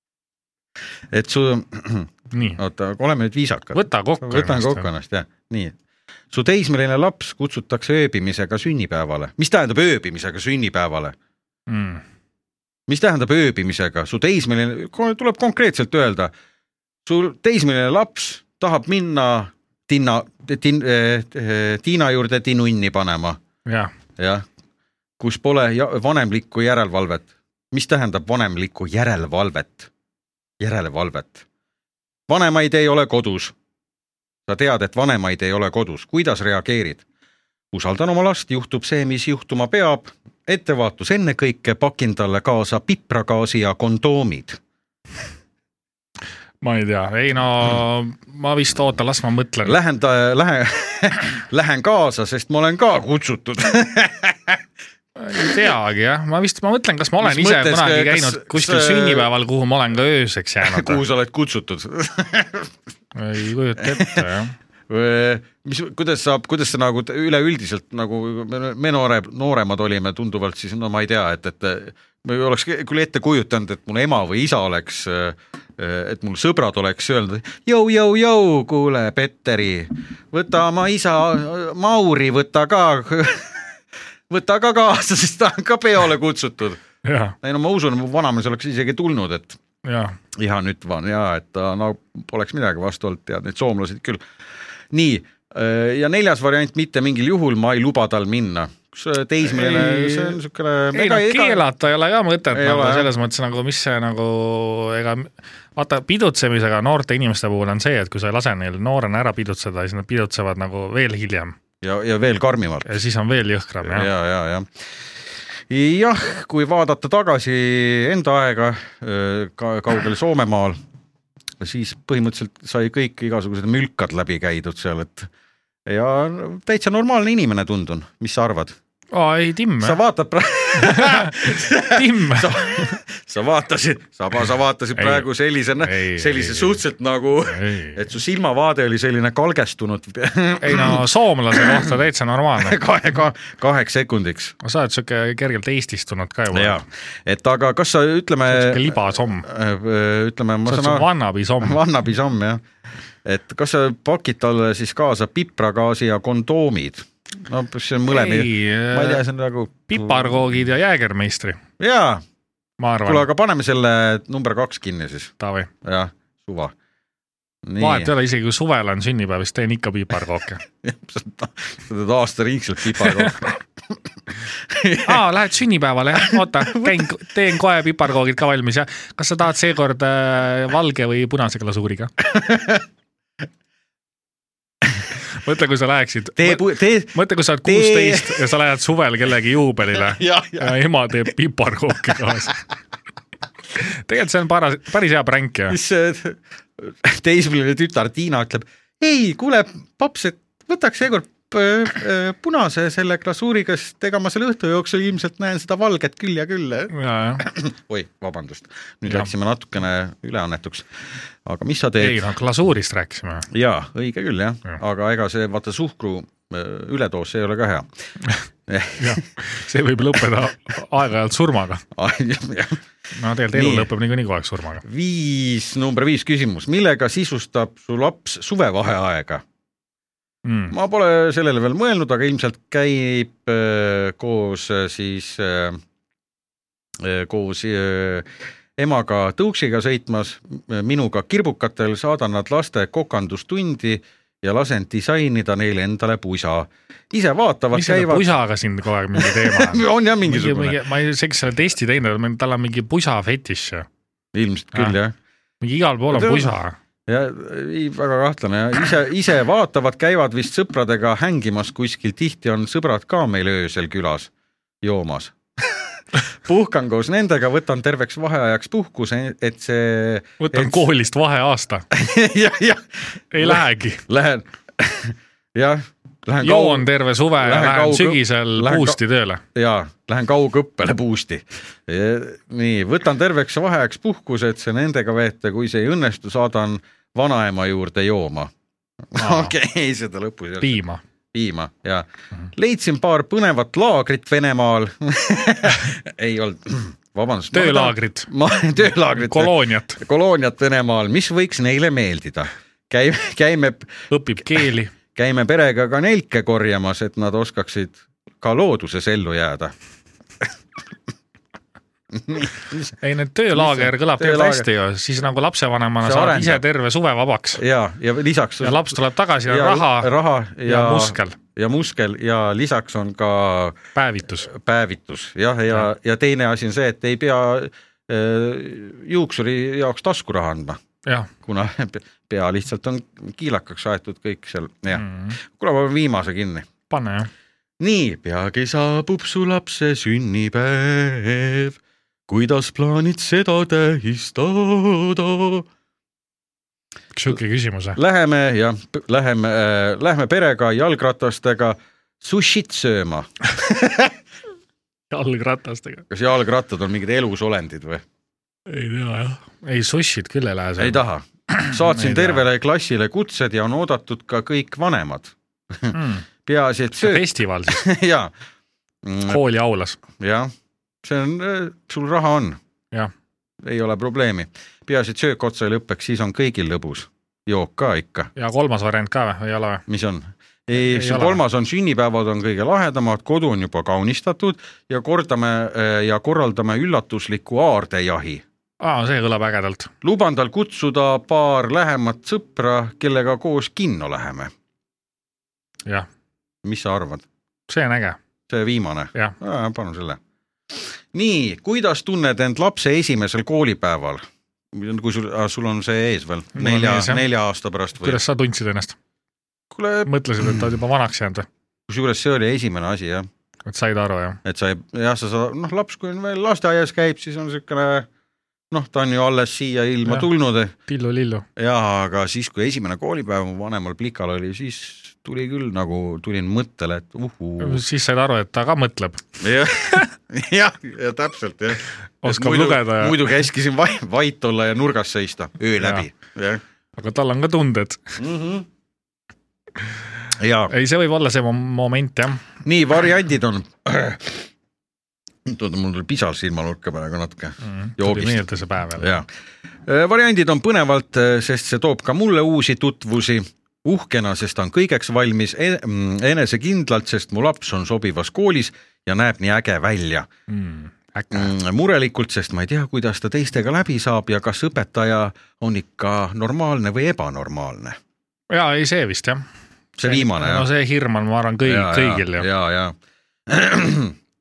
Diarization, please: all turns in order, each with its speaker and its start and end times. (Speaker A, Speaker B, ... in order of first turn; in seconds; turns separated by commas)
Speaker A: 1.1-5.7, Speaker B: 2.3-2.6, Speaker B: 3.7-4.9, Speaker A: 6.3-11.1, Speaker B: 11.7-12.0, Speaker A: 12.9-16.3, Speaker A: 17.1-23.4, Speaker B: 23.6-23.9, Speaker A: 24.2-24.4, Speaker A: 25.2-29.9, Speaker A: 30.6-31.4, Speaker A: 32.3-33.5, Speaker A: 34.5-37.0, Speaker A: 37.7-44.6, Speaker B: 46.6-49.8, Speaker A: 49.6-54.6, Speaker B: 55.2-61.0, Speaker A: 57.2-59.3, Speaker A: 60.6-62.7, Speaker B: 63.1-64.5, Speaker A: 63.8-64.3, Speaker A: 64.9-83.7, Speaker A: 84.3-86.8, Speaker B: 87.0-87.3, Speaker A: 87.4-89.6, Speaker B: 89.8-90.2, Speaker A: 90.3-94.2, Speaker A: 94.9-101.6, Speaker B: 99.4-100.4, Speaker B: 100.9-111.5, Speaker A: 102.5-103.1, Speaker A: 111.8-113.0, Speaker B: 112.8-114.1, Speaker A: 113.8-115.1, Speaker A: 115.7-120.8, Speaker A: 121.6-125.3, Speaker A: 125.8-128.8, Speaker B: 129.1-130.0, Speaker A: 129.8-141.9, Speaker B: 130.8-131.4, Speaker B: 131.9-132.9, Speaker B: 134.9-135.3, Speaker B: 135.8-136.8, Speaker B: 137.5-138.0, Speaker B: 140.6-142.8, Speaker A: 142.6-144.5, Speaker B: 144.6-146.8, Speaker A: 146.5-151.1, Speaker B: 148.5-149.5, Speaker B: 150.7-151.8, Speaker A: 151.6-152.6, Speaker A: 153.2-160.4, Speaker B: 158.1-159.2, Speaker B: 159.9-161.6, Speaker A: 161.8-162.2, Speaker B: 162.8-163.3, Speaker A: 163.0-165.3, Speaker B: 165.4-165.7, Speaker A: 165.8-166.7, Speaker A: 167.6-168.1, Speaker B: 167.8-170.6, Speaker A: 170.8-173.6, Speaker A: 174.7-175.2, Speaker B: 175.0-182.1, Speaker A: 176.2-177.0, Speaker A: 182.3-182.8, Speaker B: 185.3-192.6, Speaker A: 186.4-188.5, Speaker A: 189.9-190.8, Speaker B: 193.8-195.8, Speaker A: 195.7-212.2, Speaker B: 206.9-207.4, Speaker B: 212.0-213.5, Speaker A: 213.5-217.9, Speaker A: 218.7-219.2, Speaker B: 219.0-221.8, Speaker A: 221.9-222.8, Speaker B: 223.1-224.8, Speaker A: 223.5-223.9, Speaker A: 224.8-229.4, Speaker B: 230.4-230.7, Speaker A: 230.7-235.8, Speaker A: 237.0-248.4, Speaker B: 247.7-253.9, Speaker A: 249.2-250.8, Speaker A: 254.3-255.1, Speaker B: 255.6-256.8, Speaker A: 256.1-256.5, Speaker A: 257.1-264.3, Speaker A: 264.8-270.9, Speaker B: 270.4-271.9, Speaker A: 271.9-279.0, Speaker B: 273.3-274.0, Speaker B: 276.4-279.4, Speaker A: 279.5-288.5, Speaker A: 289.1-290.8, Speaker B: 289.2-289.5, Speaker B: 290.6-291.0, Speaker A: 291.3-304.6, Speaker B: 297.5-298.3, Speaker B: 299.1-300.0, Speaker B: 304.1-304.9, Speaker A: 305.1-309.7, Speaker A: 312.1-312.9, Speaker B: 313.0-317.6, Speaker A: 313.5-314.7, Speaker A: 316.0-316.6, Speaker A: 317.6-318.9, Speaker B: 318.6-320.1, Speaker A: 319.5-323.8, Speaker B: 320.6-321.4, Speaker B: 323.9-324.5, Speaker A: 324.4-330.8, Speaker A: 331.4-336.7, Speaker B: 334.9-335.4, Speaker B: 336.9-337.3, Speaker A: 337.8-341.8, Speaker A: 342.3-345.6, Speaker B: 347.1-348.0, Speaker A: 347.9-354.1, Speaker B: 355.1-356.0, Speaker A: 356.1-358.0, Speaker B: 358.7-361.0, Speaker A: 360.8-368.3, Speaker B: 361.5-362.4, Speaker B: 365.9-366.3, Speaker B: 367.0-367.9, Speaker A: 369.0-369.4, Speaker B: 369.3-370.0, Speaker A: 370.1-370.5, Speaker A: 371.0-372.6, Speaker A: 373.6-378.3, Speaker B: 378.4-379.8, Speaker A: 379.9-388.4, Speaker B: 380.7-381.4, Speaker B: 388.8-389.9, Speaker A: 390.0-394.5, Speaker A: 396.6-397.2, Speaker B: 397.7-398.2, Speaker A: 398.5-400.2, Speaker A: 400.7-408.2, Speaker B: 406.5-407.2, Speaker B: 408.0-408.9, Speaker A: 409.7-410.7, Speaker B: 410.1-411.5, Speaker A: 411.9-413.3, Speaker B: 413.6-414.4, Speaker A: 414.4-418.1, Speaker A: 418.7-420.7, Speaker B: 420.9-421.4, Speaker A: 421.6-427.8, Speaker B: 427.6-429.2, Speaker A: 429.4-436.6, Speaker B: 432.2-433.3, Speaker B: 435.8-436.0, Speaker B: 437.0-438.1, Speaker A: 438.2-438.7, Speaker A: 440.3-440.7, Speaker B: 440.7-442.4, Speaker A: 442.6-444.5, Speaker A: 445.4-448.4, Speaker B: 447.6-449.1, Speaker A: 449.0-449.2, Speaker A: 449.9-460.3, Speaker B: 460.5-461.5, Speaker A: 461.3-468.0, Speaker B: 468.5-469.4, Speaker A: 470.0-470.7, Speaker B: 470.0-472.5, Speaker A: 471.6-472.9, Speaker A: 473.5-474.1